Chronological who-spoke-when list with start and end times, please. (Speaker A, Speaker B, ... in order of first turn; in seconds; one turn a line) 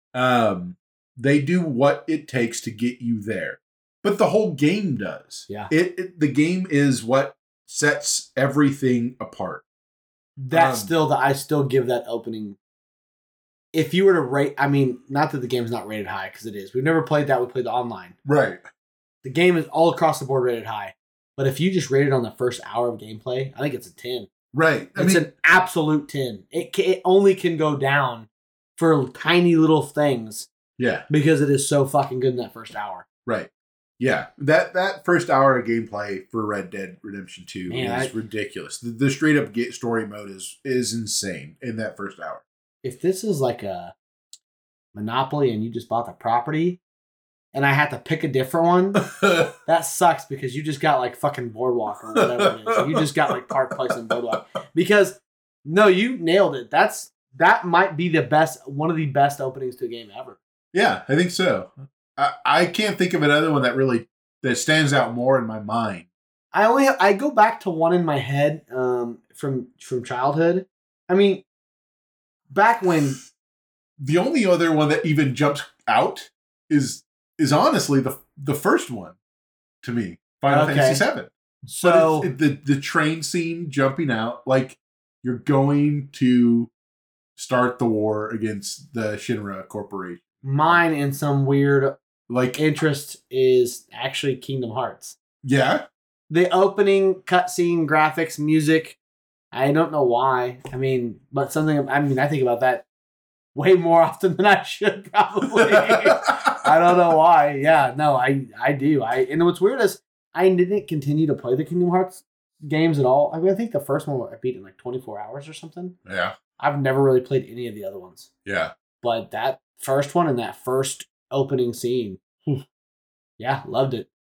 Speaker A: 0.1-9.6
Speaker B: 10.4-12.6
Speaker A: 10.5-10.9
Speaker B: 13.7-18.1
Speaker A: 18.2-18.6
Speaker B: 19.2-24.3
Speaker A: 24.5-25.2
Speaker B: 24.9-30.5
Speaker A: 30.8-31.1
Speaker B: 31.1-33.0
Speaker A: 33.2-42.4
Speaker B: 37.7-38.1
Speaker B: 42.8-43.9
Speaker B: 44.9-46.8
Speaker B: 47.5-49.0
Speaker A: 49.1-49.5
Speaker B: 49.6-60.4
Speaker A: 52.1-52.5
Speaker A: 60.7-66.1
Speaker B: 66.5-71.4
Speaker B: 72.5-73.2
Speaker A: 74.0-79.2
Speaker A: 79.8-86.7
Speaker B: 80.5-81.0
Speaker B: 81.7-82.3
Speaker A: 87.3-90.8
Speaker B: 90.4-92.0
Speaker A: 92.3-92.6
Speaker B: 92.5-95.2
Speaker A: 95.4-95.8
Speaker B: 96.3-99.0
Speaker B: 99.5-102.8
Speaker B: 103.5-116.0
Speaker A: 105.6-106.6
Speaker A: 116.0-116.3
Speaker B: 116.6-118.3
Speaker A: 118.4-118.7
Speaker B: 119.0-122.6
Speaker B: 123.4-124.1